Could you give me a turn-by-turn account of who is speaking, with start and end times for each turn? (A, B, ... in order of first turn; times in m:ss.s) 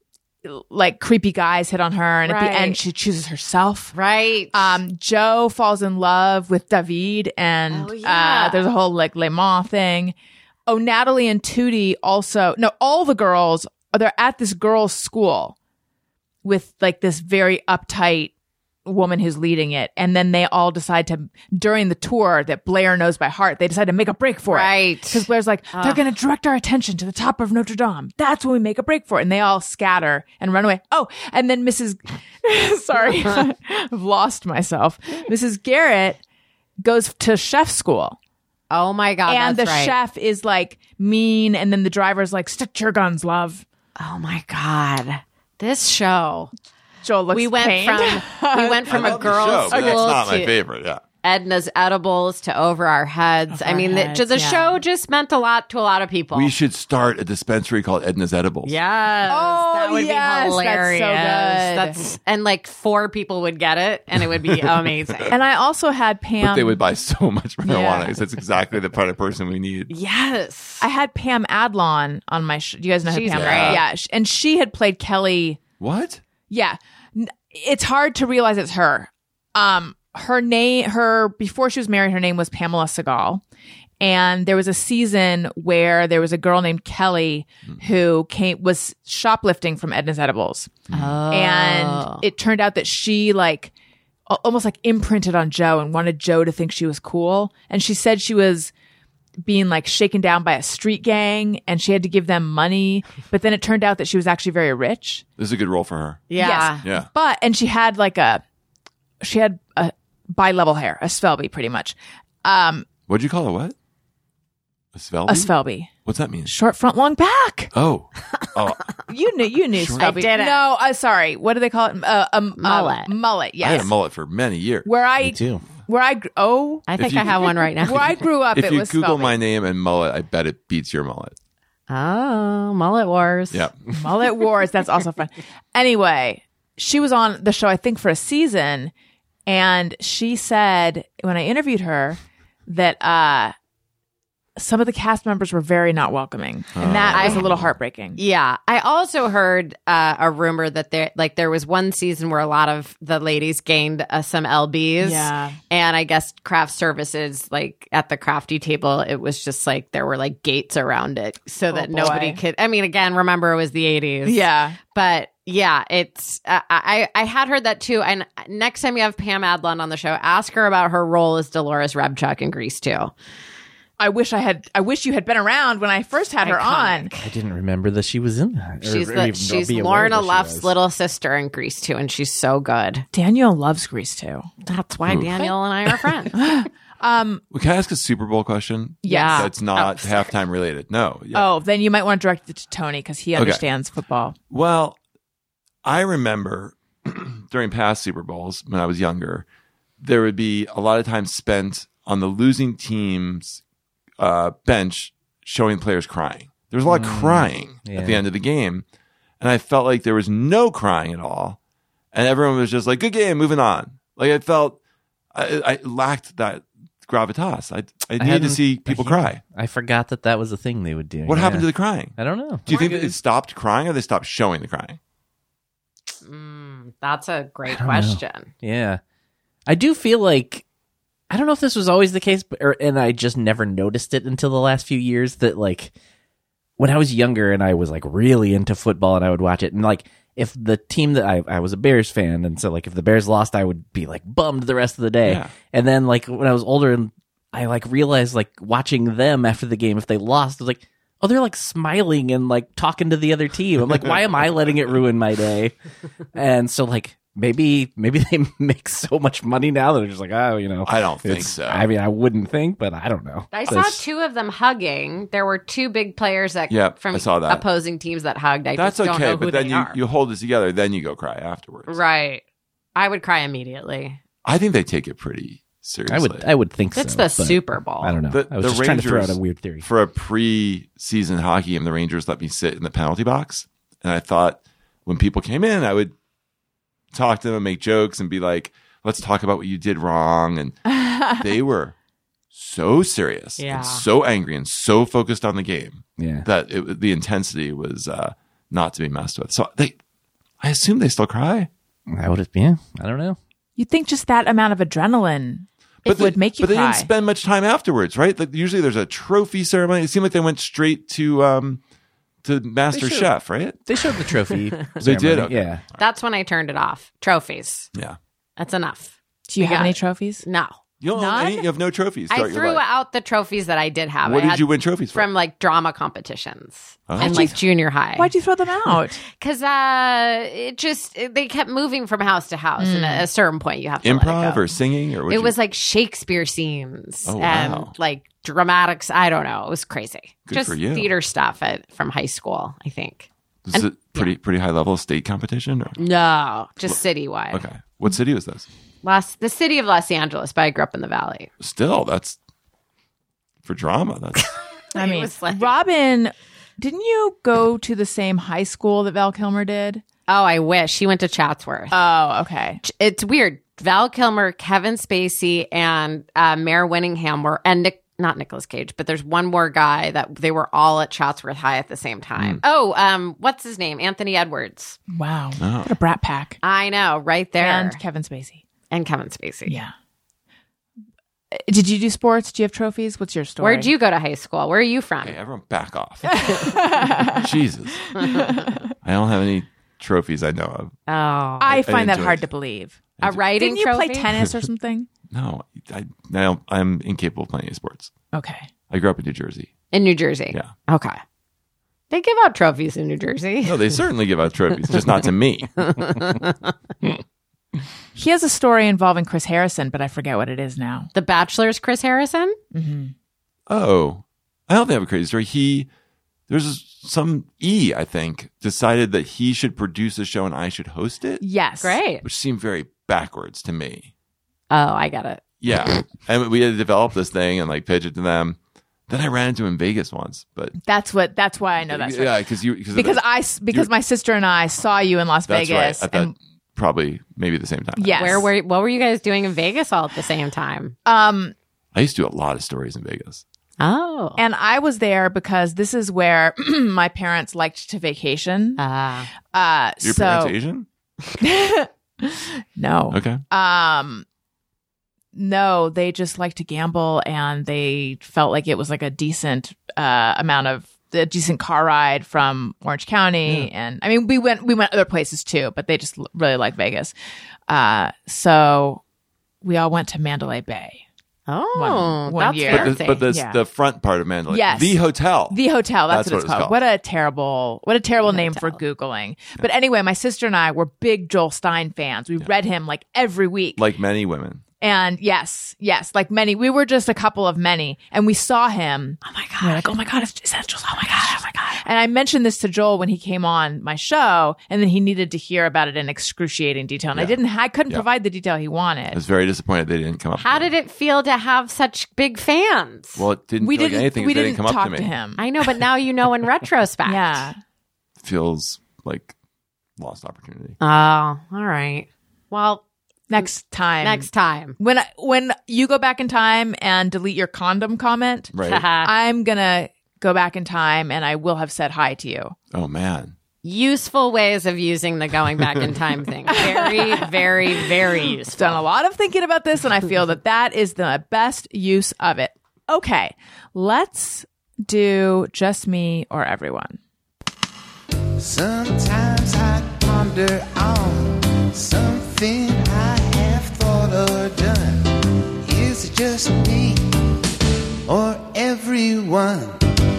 0:00.4-0:04.0 A
0:02.3-0:02.8 B
0:03.9-0:04.8 B
0:04.5-0:10.1 A
0:07.7-0:08.7 B
0:10.7-0:15.6 A
0:16.4-0:18.3 A
0:18.8-0:36.2 A
0:24.5-0:26.0 B
0:36.8-0:38.2 A
0:38.7-0:40.0 B
0:39.3-0:43.6 A
0:44.0-0:46.5 B
0:47.0-0:50.1 A
0:47.3-0:50.6 B
0:48.9-0:51.0 C
0:51.2-0:56.5 B
0:53.5-0:54.8 A
0:56.3-0:58.7 C
0:58.6-1:05.3 B
0:59.3-1:02.0 A
1:05.3-1:06.8 A
1:06.4-1:09.9 C
1:07.6-1:08.2 A
1:09.9-1:10.9 B
1:10.8-1:15.6 A
1:13.1-1:13.8 B
1:13.3-1:13.8 C
1:15.8-1:16.2 C
1:16.5-1:23.4 A
1:24.0-1:30.7 A
1:30.9-1:31.2 C
1:30.9-1:32.2 B
1:31.3-1:33.7 A
1:34.3-1:38.7 A
1:39.4-1:45.2 A
1:45.4-1:46.3 C
1:46.3-1:46.8 B
1:46.4-1:48.4 A
1:46.8-1:47.1 C
1:49.2-1:52.9 A
1:53.1-1:53.8 C
1:55.0-1:56.5 C
1:55.3-1:55.9 A
1:56.5-1:57.7 A
1:57.7-1:58.9 C
1:59.1-2:03.9 A
1:59.8-2:00.1 C
2:00.0-2:00.6 B
2:02.6-2:03.1 B
2:03.6-2:04.9 C
2:04.8-2:06.9 A
2:05.2-2:05.6 D
2:06.9-2:08.0 B
2:07.0-2:11.4 C
2:07.8-2:09.4 A
2:11.9-2:13.7 B
2:13.5-2:13.8 C
2:13.9-2:18.9 A
2:19.5-2:23.5 A
2:24.6-2:28.2 A
2:26.8-2:27.7 C
2:27.1-2:27.5 B
2:28.2-2:53.1 B
2:35.0-2:35.6 A
2:41.7-2:42.4 A
2:44.2-2:44.8 A
2:54.0-2:57.1 A
2:56.4-2:57.3 B
2:57.2-3:00.7 D
2:58.8-3:03.1 B
3:03.1-3:04.5 A
3:04.6-3:06.3 B
3:05.1-3:05.5 C
3:06.3-3:07.4 A
3:07.5-3:11.5 C
3:09.0-3:09.5 A
3:09.1-3:10.3 B
3:11.3-3:14.4 A
3:13.4-3:13.6 C
3:14.5-3:15.0 C
3:15.8-3:19.5 C
3:20.0-3:23.6 C
3:24.2-3:28.8 C
3:26.9-3:28.2 D
3:29.4-3:31.6 C
3:32.1-3:34.8 C
3:35.3-3:39.4 C
3:38.2-3:43.2 D
3:41.3-3:45.0 C
3:46.2-3:48.5 B
3:47.7-3:49.0 D
3:49.7-3:50.6 D
3:51.3-3:55.9 D
3:56.8-4:15.7 D
4:05.2-4:05.6 C
4:16.3-4:24.0 D
4:20.8-4:21.9 C
4:23.5-4:30.0 B
4:26.7-4:27.6 C
4:28.8-4:32.0 C
4:31.9-4:32.4 B
4:33.0-4:34.2 B
4:34.4-4:36.5 C
4:36.1-4:39.9 D
4:37.0-4:38.2 B
4:38.3-4:46.2 C
4:47.1-4:52.0 C
4:50.9-4:51.4 A
4:52.5-5:00.0 C
4:53.6-4:54.0 B
4:56.2-4:56.4 D
5:00.6-5:01.7 C
5:02.1-5:03.4 D
5:03.8-5:07.1 A
5:06.0-5:11.8 C
5:12.4-5:13.8 C
5:12.9-5:13.3 D
5:13.9-5:15.8 D
5:15.0-5:15.8 C
5:16.0-5:17.9 B
5:18.6-5:20.8 B
5:19.5-5:20.4 A
5:21.0-5:22.8 C
5:21.1-5:21.7 A
5:22.3-5:28.3 B
5:24.2-5:25.3 C
5:27.1-5:27.6 C
5:27.2-5:27.6 A
5:28.1-5:29.2 A
5:29.4-5:34.7 B
5:32.8-5:33.3 A
5:34.0-5:35.6 C
5:35.3-5:44.3 B
5:37.3-5:37.9 C
5:40.5-5:41.1 C
5:43.7-5:46.0 C
5:46.0-5:47.6 B
5:47.5-5:48.7 C
5:49.0-5:51.5 B
5:51.6-5:52.4 C
5:53.6-5:54.6 C
5:54.9-5:55.8 B
5:55.0-6:00.0 A
6:00.3-6:02.0 B
6:01.9-6:02.8 A
6:02.8-6:15.0 B
6:15.1-6:16.6 A
6:15.6-6:15.9 C
6:16.6-6:18.0 B
6:17.6-6:18.6 A
6:18.9-6:19.8 B
6:19.7-6:19.9 A
6:21.5-6:23.9 A
6:23.6-6:25.4 B
6:25.2-6:28.2 C
6:26.2-6:27.5 A
6:28.1-6:28.9 A
6:29.0-6:30.9 C
6:31.1-6:31.8 B
6:31.6-6:33.0 A
6:31.8-6:32.4 C
6:33.2-6:33.4 C
6:33.2-6:34.3 B
6:33.6-6:35.1 A
6:35.3-6:38.1 C
6:38.3-6:38.7 A
6:38.9-6:39.7 C
6:39.9-6:41.2 B
6:42.1-6:44.0 B
6:43.6-6:45.7 C
6:45.8-6:46.5 B
6:48.2-6:51.1 A
6:51.2-6:52.6 B
6:52.7-6:53.1 A
6:53.7-6:55.9 C
6:56.5-7:01.4 C
7:01.4-7:02.0 A
7:01.8-7:02.2 B
7:02.2-7:04.1 C
7:04.7-7:06.0 B
7:05.6-7:10.8 C
7:10.8-7:12.4 A
7:11.8-7:13.9 C
7:12.9-7:16.4 A
7:15.5-7:18.4 C
7:18.0-7:18.5 A
7:18.2-7:21.0 B
7:21.0-7:21.5 A
7:22.0-7:23.4 C
7:23.8-7:24.4 B
7:24.4-7:28.8 A
7:28.8-7:29.3 B
7:29.4-7:30.6 A
7:30.0-7:30.9 C
7:31.4-7:34.2 A
7:33.1-7:33.4 C
7:35.3-7:47.1 A
7:47.7-7:49.0 A
7:49.6-7:51.0 A
7:51.5-7:53.2 B
7:51.8-7:53.6 A
7:52.7-7:56.8 C
7:54.5-8:03.8 A
7:58.3-7:58.8 B
8:03.8-8:04.6 C
8:04.8-8:19.2 A
8:09.2-8:09.9 B
8:19.1-8:20.7 C
8:20.4-8:23.3 B
8:23.2-8:25.1 C
8:23.6-8:25.4 A
8:25.4-8:27.5 B
8:27.1-8:27.6 A
8:28.2-8:29.3 C
8:30.0-8:30.8 C
8:30.8-8:32.8 B
8:33.3-8:42.6 A
8:34.0-8:34.8 B
8:38.5-8:38.8 C
8:38.7-8:39.1 B
8:42.7-8:43.3 C
8:43.6-8:48.8 B
8:46.5-8:47.3 A
8:48.5-8:57.0 A
8:58.4-9:05.1 E
9:05.6-9:07.0 E
9:08.1-9:09.8 E